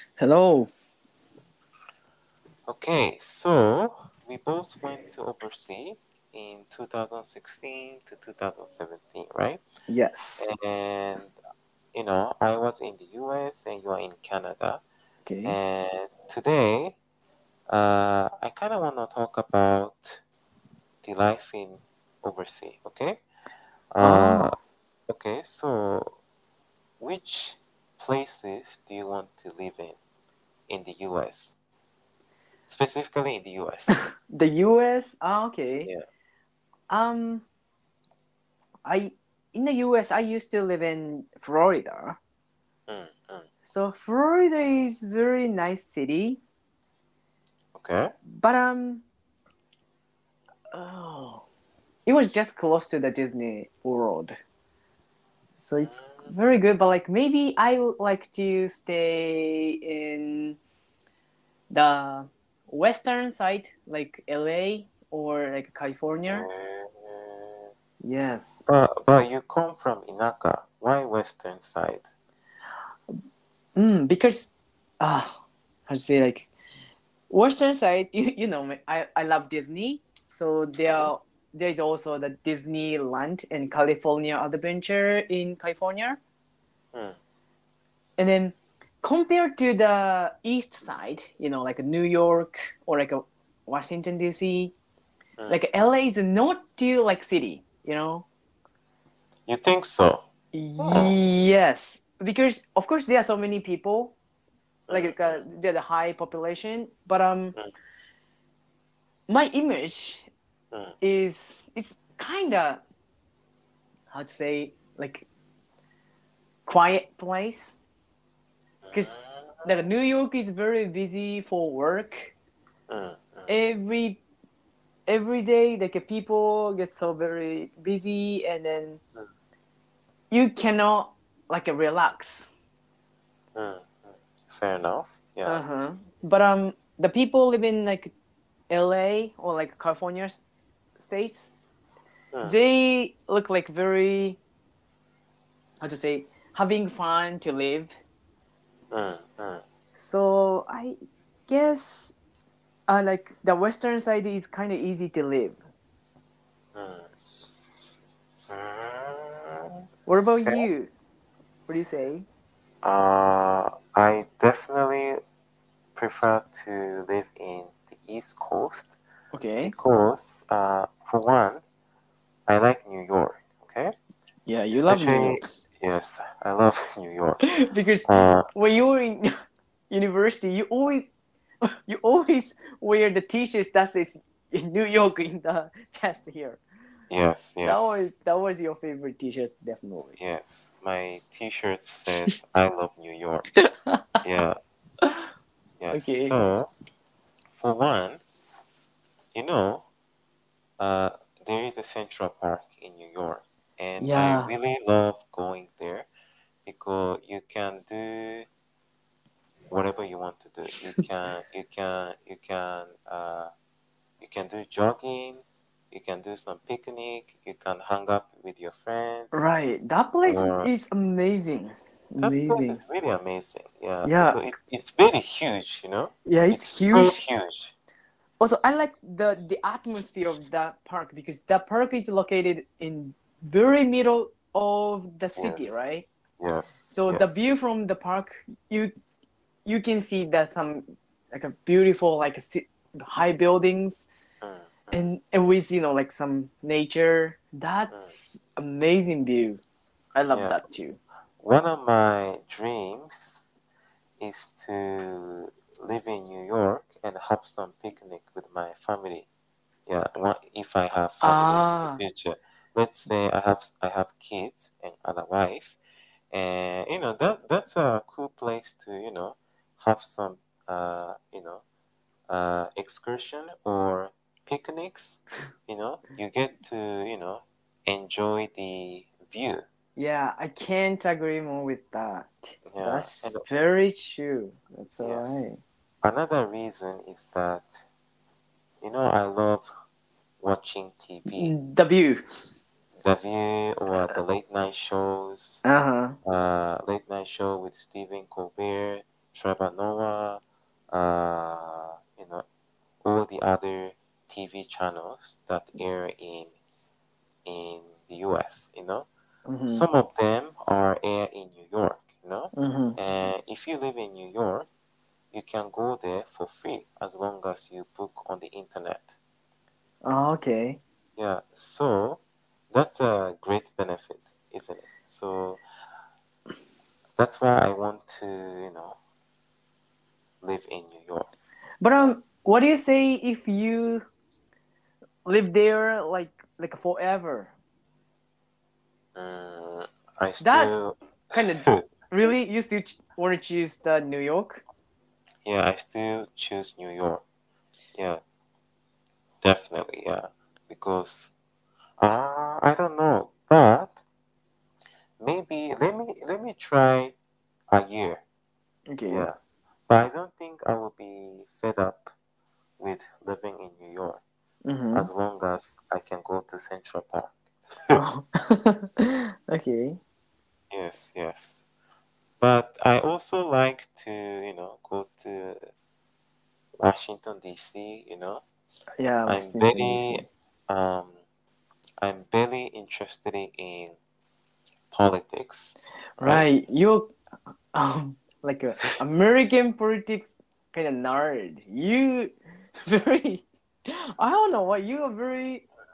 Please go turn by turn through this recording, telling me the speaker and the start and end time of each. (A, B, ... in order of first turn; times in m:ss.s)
0:00.2-0:00.7 A
0:02.7-0:09.6 B
0:09.9-0:10.5 A
0:10.4-0:11.3 B
0:11.9-0:14.8 B
0:15.2-0:15.6 A
0:15.4-0:17.0 B
0:17.7-0:20.2 B
0:21.0-0:23.2 B
0:23.9-0:24.5 B
0:24.0-0:24.5 A
0:25.1-0:26.2 B
0:27.0-0:30.0 B
0:30.7-0:31.5 B
0:32.7-0:34.0 B
0:34.2-0:35.9 A
0:36.9-0:37.4 A
0:38.8-0:42.2 A
0:42.9-0:43.5 B
0:43.6-0:46.4 A
0:47.8-0:48.1 B
0:48.4-0:49.0 A
0:50.7-0:51.4 A
0:52.0-0:54.4 A
0:55.6-1:00.6 A
0:55.8-0:56.3 B
1:01.7-1:06.5 A
1:06.2-1:07.6 B
1:08.0-1:08.6 A
1:08.6-1:12.0 B
1:13.8-1:16.5 A
1:17.3-1:26.2 A
1:28.2-1:34.7 A
1:35.5-1:38.2 A
1:39.5-1:40.2 B
1:40.5-1:44.1 A
1:40.8-1:41.2 B
1:44.9-1:45.4 B
1:44.9-1:47.5 A
1:49.3-1:50.3 A
1:51.0-1:52.8 A
1:54.1-1:55.3 A
1:56.6-1:57.8 A
1:58.8-1:59.6 B
1:58.9-2:02.3 A
2:02.9-2:03.5 B
2:03.5-2:04.2 A
2:05.1-2:09.0 A
2:10.3-2:12.5 A
2:13.5-2:15.6 B
2:15.4-2:18.1 A
2:18.7-2:20.4 A
2:21.0-2:21.5 A
2:22.4-2:24.4 A
2:25.8-2:27.9 A
2:28.9-2:29.6 B
2:29.9-2:31.0 A
2:31.5-2:32.1 A
2:32.9-2:35.6 A
2:36.7-2:37.1 B
2:38.5-2:39.7 B
2:40.0-2:40.9 A
2:41.7-2:42.2 A
2:42.8-2:45.2 B
2:46.0-2:48.9 B
2:49.3-2:49.7 A
2:49.6-2:51.6 B
2:52.5-2:53.9 B
2:54.4-2:55.5 A
2:54.7-2:57.5 B
2:57.5-2:59.3 A
2:58.0-2:58.5 B
2:59.9-3:01.1 A
3:01.9-3:06.6 A
3:07.1-3:08.1 B
3:07.6-3:10.2 A
3:10.2-3:13.5 B
3:14.2-3:14.6 B
3:15.8-3:16.7 B
3:15.9-3:16.4 A
3:17.5-3:18.2 B
3:19.3-3:19.8 B
3:20.8-3:26.1 B
3:24.0-3:24.5 A
3:26.6-3:28.5 B
3:29.7-3:33.5 B
3:34.2-3:39.3 B
3:39.3-3:42.8 A
3:40.2-3:40.7 B
3:42.2-3:47.7 B
3:44.0-3:44.4 A
3:46.2-3:47.2 A
3:48.4-3:56.0 A
3:55.4-3:55.8 B
3:56.4-3:57.5 B
3:56.9-3:58.9 A
3:59.6-4:04.1 A
4:04.4-4:05.1 B
4:04.9-4:09.6 A
4:10.1-4:11.0 A
4:10.3-4:10.6 B
4:11.4-4:13.4 B
4:14.2-4:19.3 B
4:19.9-4:25.8 B
4:21.2-4:22.0 A
4:26.3-4:31.6 B
4:32.3-4:39.6 B
4:40.0-4:45.6 A
4:42.7-4:43.4 B
4:45.0-4:45.4 B
4:46.0-4:47.8 B
4:48.8-4:49.7 B
4:50.4-4:51.5 B
4:51.3-4:52.5 A
4:53.0-4:55.6 B
4:55.6-4:56.2 A
4:56.2-5:02.4 B
5:03.0-5:06.5 B
5:07.4-5:09.1 B
5:09.4-5:09.8 A
5:09.7-5:14.7 B
5:12.5-5:13.0 A
5:15.3-5:19.2 B
5:20.0-5:20.8 A
5:21.2-5:25.6 B
5:27.2-5:29.0 B
5:30.4-5:31.3 B
5:31.8-5:34.1 A
5:35.2-5:37.5 A
5:39.2-5:41.9 B
5:40.4-5:40.8 A
5:41.3-5:44.6 A
5:45.4-5:47.2 B
5:47.9-5:48.2 B
5:49.4-5:51.3 B
5:52.0-5:54.0 B
5:55.2-5:57.1 B
5:57.7-5:58.2 B
5:58.9-5:59.3 A
5:59.0-5:59.4 B
5:59.9-6:02.1 B
6:02.8-6:04.2 B
6:04.6-6:05.1 A
6:04.9-6:08.0 B
6:08.0-6:10.0 A
6:10.7-6:11.6 B
6:12.4-6:15.6 B
6:16.8-6:18.4 B
6:19.0-6:20.2 A
6:19.3-6:21.2 B
6:22.0-6:24.0 B
6:24.9-6:26.4 B
6:26.2-6:27.1 A
6:27.7-6:32.3 A
6:32.8-6:33.4 A
6:34.2-6:35.6 A